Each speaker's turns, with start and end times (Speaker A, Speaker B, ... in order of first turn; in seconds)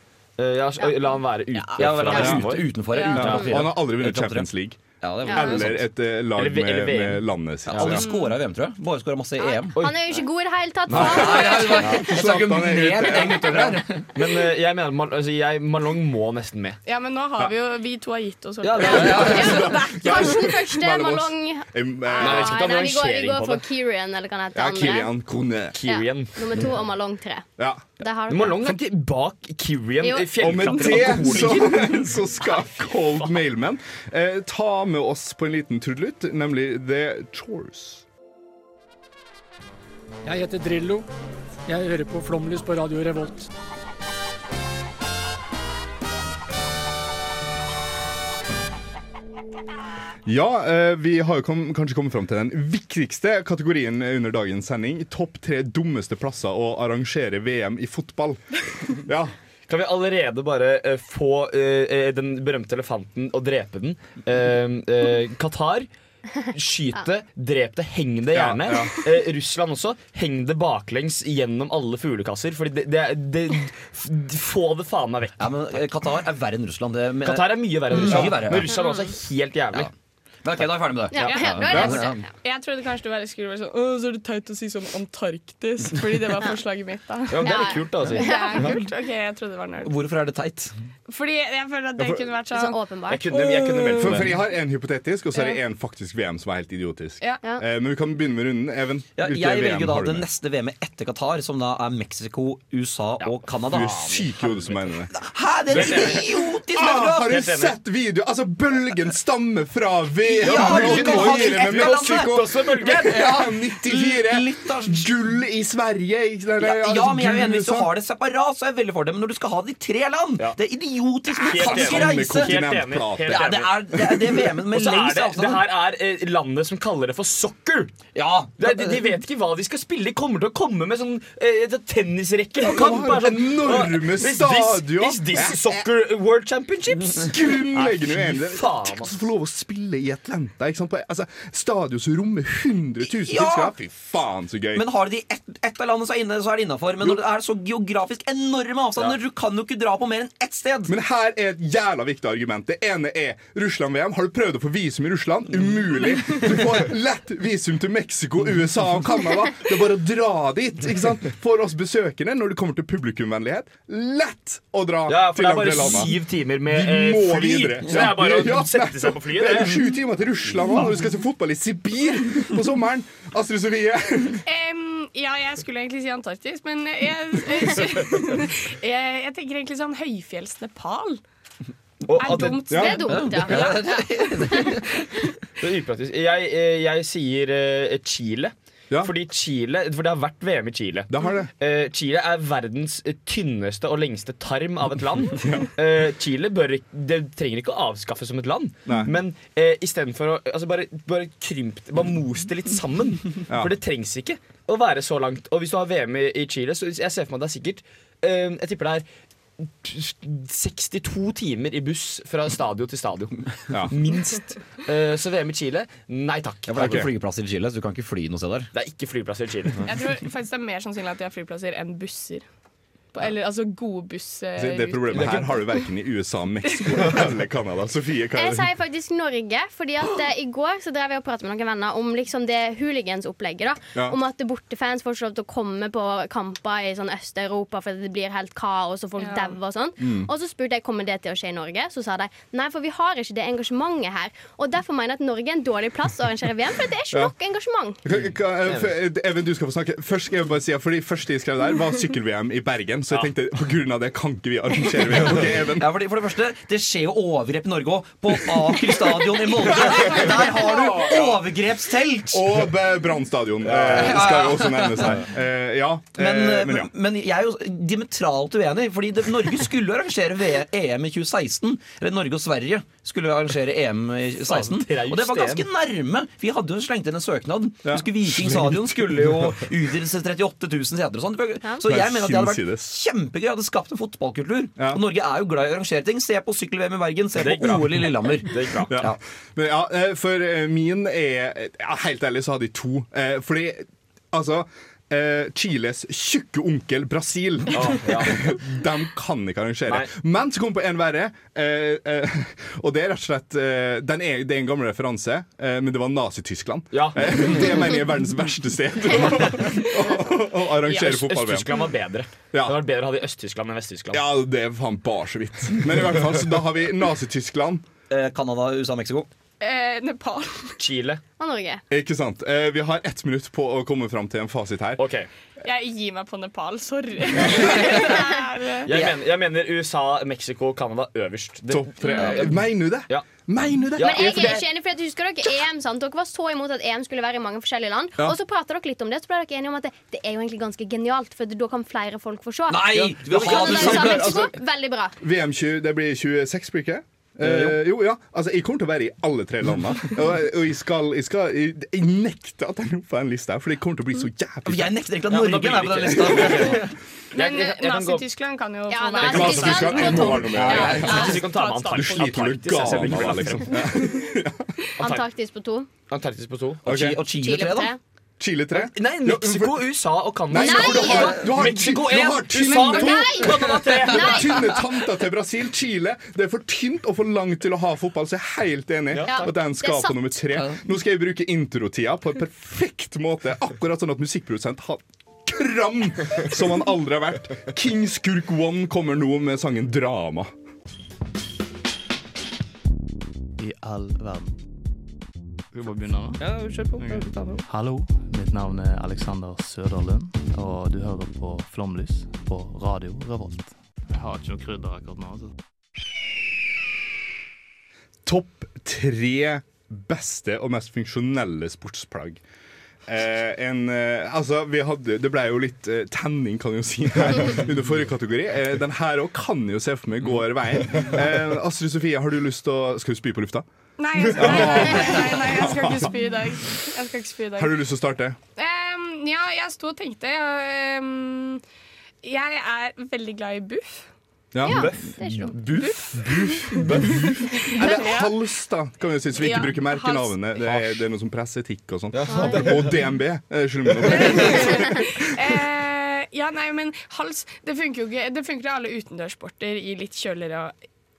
Speaker A: 0.4-3.4, 6.3-8.0, 9.7-10.0, 10.9-12.1, 14.0-16.8, 18.6-19.7, 22.2-23.6, 25.7-26.6, 28.3-33.4, 59.7-65.9, 66.5-75.6, 77.2-79.9, 87.3-88.8, 93.1-94.4, 103.2-104.9, 105.7-106.2, 107.3-107.7, 110.4-113.5, 121.3-127.9, 128.6-139.3, 165.1-169.8, 182.0-182.8, 185.6-209.0, 209.6-217.1, 218.7-219.8, 225.1-225.4, 261.0-261.4, 263.7-264.2, 274.4-275.6, 287.4-288.9, 297.7-298.5, 306.9-307.7, 310.8-314.2, 320.8-321.2, 325.0-325.3, 328.9-333.2, 333.9-334.6, 342.9-344.2, 347.4-347.8, 355.3-358.2, 359.3-363.8, 365.0-365.2, 366.1-366.9, 368.7-374.6, 379.1-379.5, 396.4-397.0, 434.6-435.1, 436.8-437.2, 440.6-440.9, 442.1-442.9, 443.9-444.4
Speaker B: 0.8-1.2, 2.9-3.5, 5.2-5.6, 9.4-12.1, 18.8-25.1, 25.8-27.4, 28.0-28.6, 30.0-31.5, 81.1-82.2, 87.4-88.7, 92.5-93.3, 182.7-184.7, 228.3-248.0, 321.4-321.8, 334.0-345.1, 358.9-361.4, 365.0-365.9, 367.4-368.0, 370.6-371.4, 372.9-374.8, 379.2-380.4, 434.6-435.5, 442.3-442.6
Speaker C: 1.5-4.5, 5.0-5.8, 7.7-9.8, 10.9-14.1, 75.4-78.8, 80.4-82.3, 89.8-90.7, 99.2-104.3, 105.1-107.4, 110.2-115.1, 116.6-122.6, 123.3-125.6, 128.1-129.0, 143.2-143.8, 144.7-150.9, 183.1-185.0, 216.7-218.7, 255.2-262.6, 263.7-265.2, 266.1-289.2, 318.1-319.3, 328.9-329.1, 342.7-344.5, 354.6-356.8, 360.6-361.4, 366.8-367.9
Speaker D: 2.1-2.5, 3.1-8.0, 10.9-13.9, 19.0-22.6, 24.5-25.8, 27.6-27.8, 30.4-38.0, 50.2-59.3, 68.3-68.9, 77.9-78.7, 81.7-82.0, 92.0-92.2, 94.0-100.3, 103.7-105.1, 105.7-117.9, 121.6-123.6, 132.6-135.8, 137.2-144.8, 150.9-174.4, 182.7-183.0, 191.1-191.5, 195.4-195.7, 198.9-199.1, 216.8-217.1, 224.6-228.7, 240.0-240.3, 248.0-255.9, 259.8-260.2, 262.3-266.9, 277.8-279.6, 281.8-282.9, 288.9-311.6, 312.5-312.8, 314.1-317.8, 321.9-325.0, 327.5-327.8, 331.7-334.5, 343.6-344.5, 345.2-355.0, 356.1-356.8, 359.2-364.6, 366.8-367.2, 368.4-369.9, 370.5-373.4, 374.1-390.5, 408.2-412.4, 413.1-423.7, 424.2-426.1, 427.6-428.4, 434.5-445.0
Speaker E: 16.9-20.6, 81.1-89.9, 91.1-92.8, 93.3-94.2, 95.3-95.6, 174.4-181.2, 182.1-183.9, 219.8-222.4, 223.1-225.4, 239.2-239.6, 319.6-320.8, 325.6-328.9, 357.3-362.3, 363.8-364.1, 372.6-373.3, 424.0-427.7, 428.6-431.6, 432.2-434.1, 435.7-438.3, 439.4-440.4, 444.1-450.7
Speaker F: 40.2-41.0, 41.7-43.5
Speaker G: 393.6-394.5, 395.7-405.5